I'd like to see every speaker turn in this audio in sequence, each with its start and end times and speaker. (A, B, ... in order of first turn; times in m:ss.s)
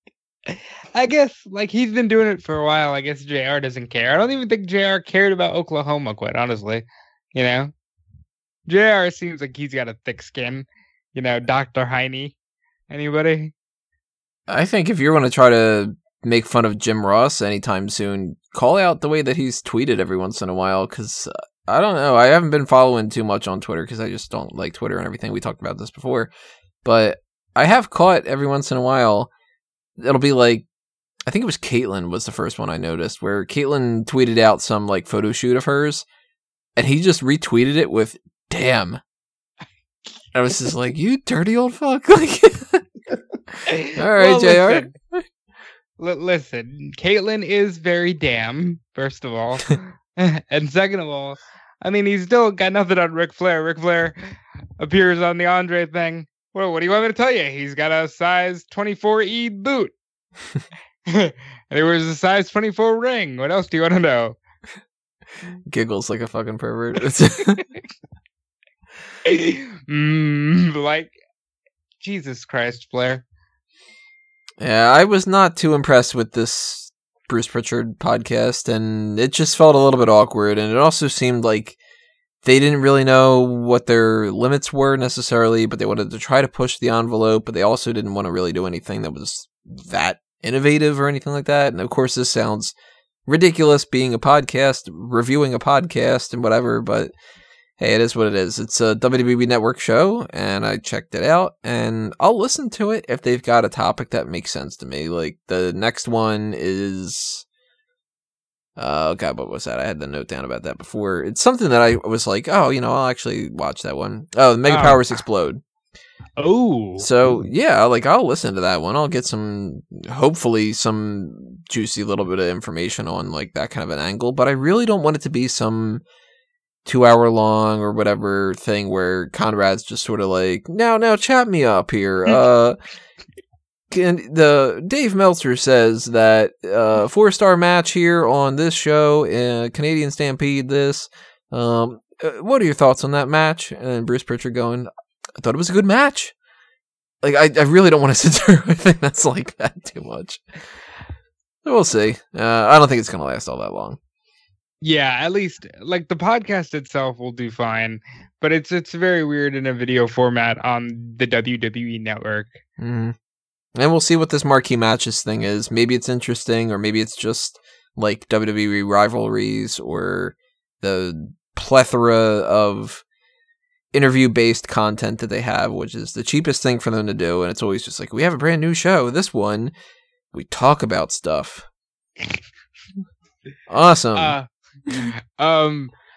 0:00.5-0:07.7 A
0:08.7-0:12.3 A
0:12.9-0:13.5 A
0:14.5-0:26.3 B
0:26.8-0:29.3 B
0:30.0-0:30.6 B
0:31.2-0:36.0 B
0:36.8-0:39.0 B
0:40.3-0:42.8 B
0:43.7-0:44.9 A
0:43.9-0:45.2 B
0:46.0-0:54.2 A
0:54.8-0:59.9 A
1:01.1-1:04.4 A
1:05.7-1:07.6 B
1:09.2-1:11.2 A
1:12.0-1:13.2 A
1:14.6-1:21.8 B
1:22.4-1:32.7 B
1:33.3-1:37.1 B
1:37.8-1:47.4 B
1:48.8-1:55.6 B
1:54.7-1:55.0 A
1:56.4-1:57.0 A
1:57.0-2:06.0 B
2:06.8-2:12.8 B
2:13.9-2:26.3 B
2:27.2-2:30.4 B
2:31.6-2:34.0 B
2:34.8-2:42.6 A
2:42.8-2:43.1 B
2:43.8-2:53.0 B
2:53.9-2:59.7 B
3:00.3-3:01.6 B
3:03.7-3:04.4 B
3:04.1-3:05.9 A